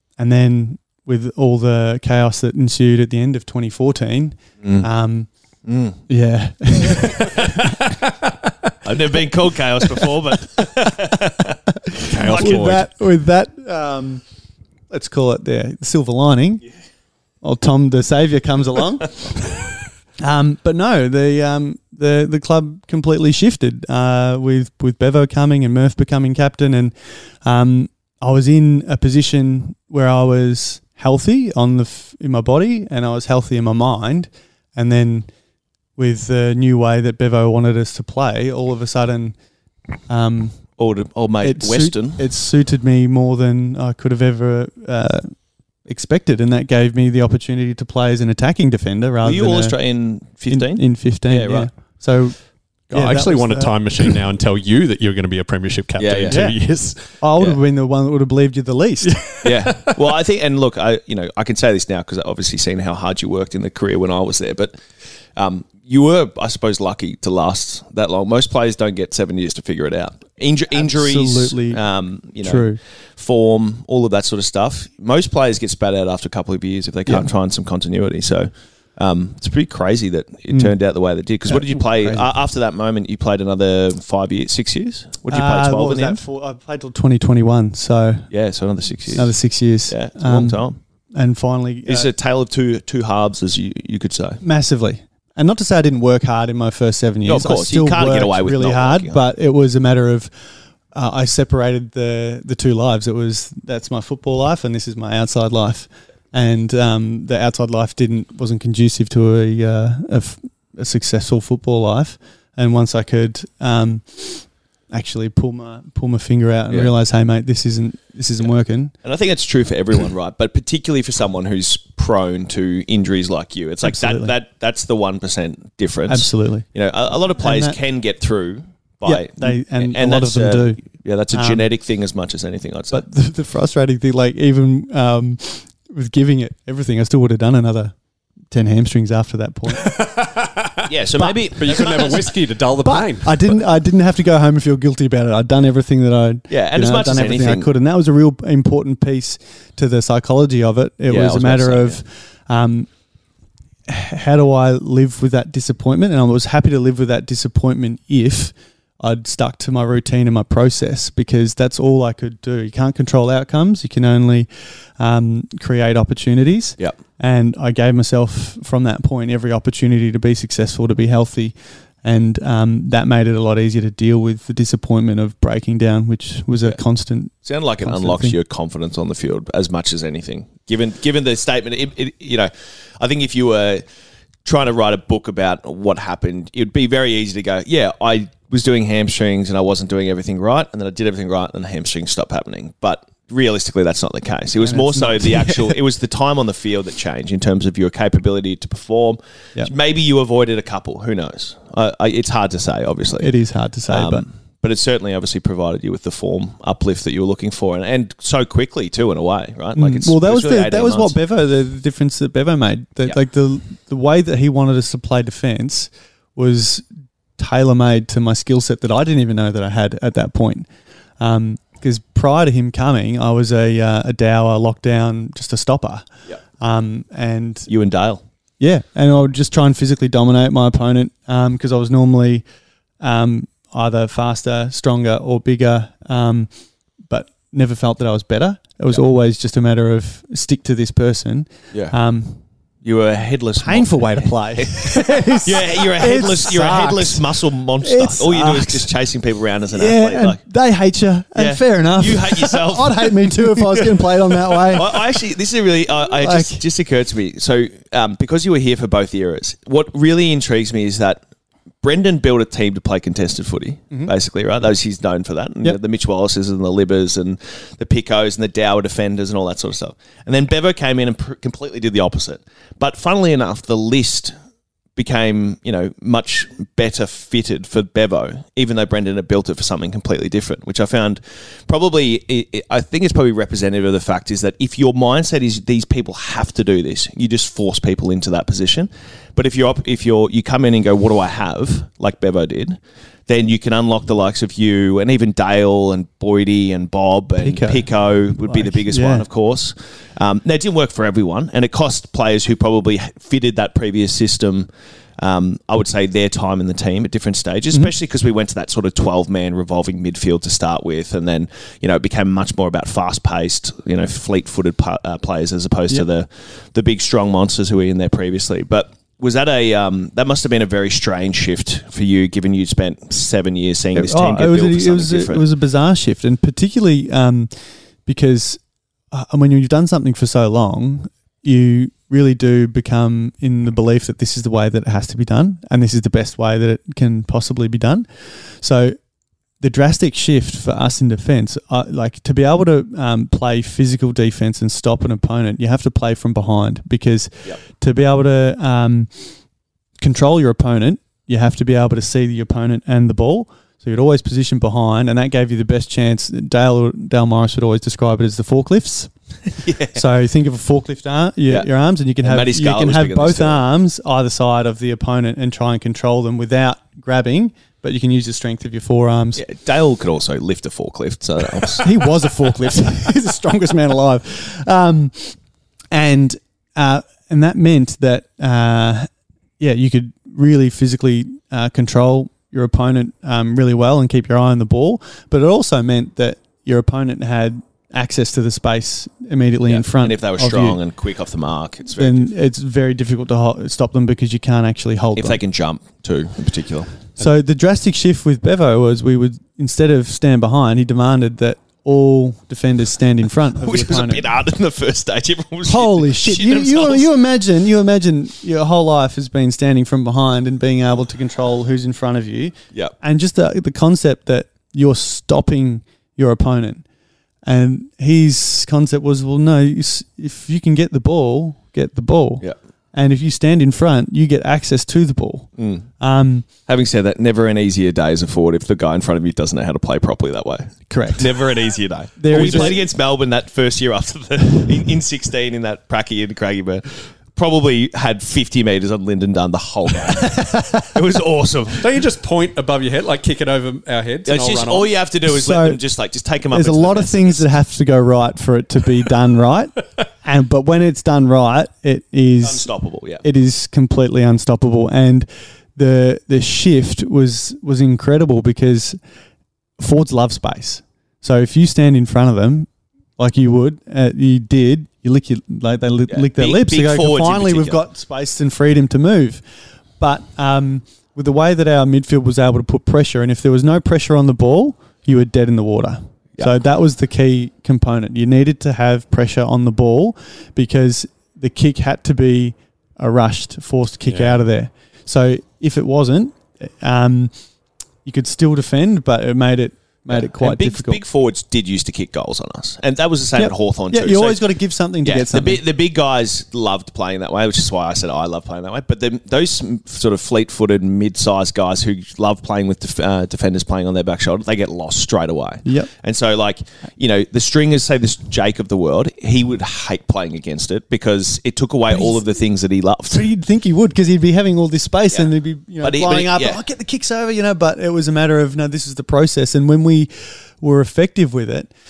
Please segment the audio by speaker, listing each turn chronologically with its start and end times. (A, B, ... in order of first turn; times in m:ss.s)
0:00.2-0:05.3 A
0:05.6-0:06.0 B
0:06.1-0:07.8 A
0:07.9-0:08.3 C
0:08.8-0:11.6 B
0:11.9-0:14.2 A
0:12.0-0:12.9 C
0:12.1-0:12.7 B
0:14.9-0:16.6 A
0:17.4-0:19.2 A
0:20.2-0:35.3 A
0:36.0-0:39.4 A
0:40.1-0:40.6 A
0:40.8-0:42.2 B
0:41.4-0:45.3 A
0:45.9-0:49.8 A
0:49.2-0:51.7 B
0:50.5-0:52.4 A
0:52.9-0:57.0 C
0:52.9-0:54.1 A
0:56.0-0:56.5 B
0:56.3-0:56.6 A
0:57.2-0:59.2 A
0:59.4-1:04.8 B
0:59.4-0:59.9 C
1:05.4-1:26.2 B
1:10.7-1:11.8 A
1:12.4-1:12.8 A
1:21.5-1:22.3 A
1:25.3-1:28.3 A
1:28.3-1:29.3 B
1:29.1-1:30.6 A
1:29.9-1:30.8 B
1:31.1-1:32.1 A
1:31.9-1:34.4 B
1:34.4-1:40.3 A
1:37.3-1:39.2 B
1:40.9-1:58.9 A
1:59.0-2:13.0 B
2:03.8-2:04.3 A
2:06.1-2:06.6 A
2:07.4-2:07.8 A
2:09.0-2:10.8 A
2:11.3-2:11.6 A
2:12.9-2:17.9 A
2:18.5-2:20.0 A
2:19.8-2:20.9 C
2:20.9-2:22.3 B
2:21.6-2:23.6 C
2:22.8-2:32.9 A
2:26.5-2:27.7 B
2:31.1-2:32.0 B
2:33.9-2:58.4 A
2:57.4-3:03.8 B
3:04.4-3:23.3 B
3:14.6-3:15.8 A
3:23.2-3:24.3 A
3:23.9-3:31.2 B
3:29.8-3:36.8 A
3:37.4-3:40.7 A
3:41.2-3:46.1 A
3:46.6-3:47.7 A
3:47.7-3:48.2 B
3:48.6-3:52.4 A
3:53.0-3:56.5 A
3:57.1-4:02.4 A
4:02.8-4:10.4 B
4:03.6-4:08.9 A
4:09.7-4:15.0 A
4:11.4-4:21.2 B
4:16.2-4:16.6 A
4:21.8-4:34.3 B
4:35.0-5:04.7 B
4:57.4-4:59.3 A
5:05.2-5:25.4 B
5:23.9-5:27.5 A
5:28.1-5:28.6 A
5:29.1-5:39.0 A
5:39.6-5:49.1 A
5:50.0-5:59.1 A
5:59.6-6:00.0 B
5:59.9-6:09.4 A
6:02.2-6:03.6 B
6:09.4-6:12.0 B
6:11.8-6:15.4 A
6:15.9-6:19.1 A
6:19.6-6:30.8 A
6:29.7-6:32.3 B
6:32.0-6:35.4 A
6:35.2-6:36.9 B
6:37.2-6:44.2 A
6:43.6-6:47.1 B
6:45.6-6:56.8 A
6:57.4-7:05.5 A
7:05.6-7:05.8 B
7:06.0-7:06.4 A
7:06.6-7:21.9 B
7:10.9-7:11.4 A
7:12.2-7:12.8 A
7:20.1-7:21.0 A
7:21.8-7:24.9 C
7:24.3-7:27.5 B
7:25.3-7:25.8 A
7:26.5-7:32.7 A
7:32.4-7:33.2 B
7:33.2-7:39.0 A
7:39.8-7:49.4 A
7:46.1-7:47.8 B
7:50.0-8:07.3 A
8:04.1-8:04.4 B
8:08.0-8:11.0 A
8:10.1-8:14.5 B
8:13.4-8:15.6 A
8:15.0-8:33.2 B
8:25.6-8:25.9 A
8:33.1-8:41.7 A
8:35.8-8:36.6 B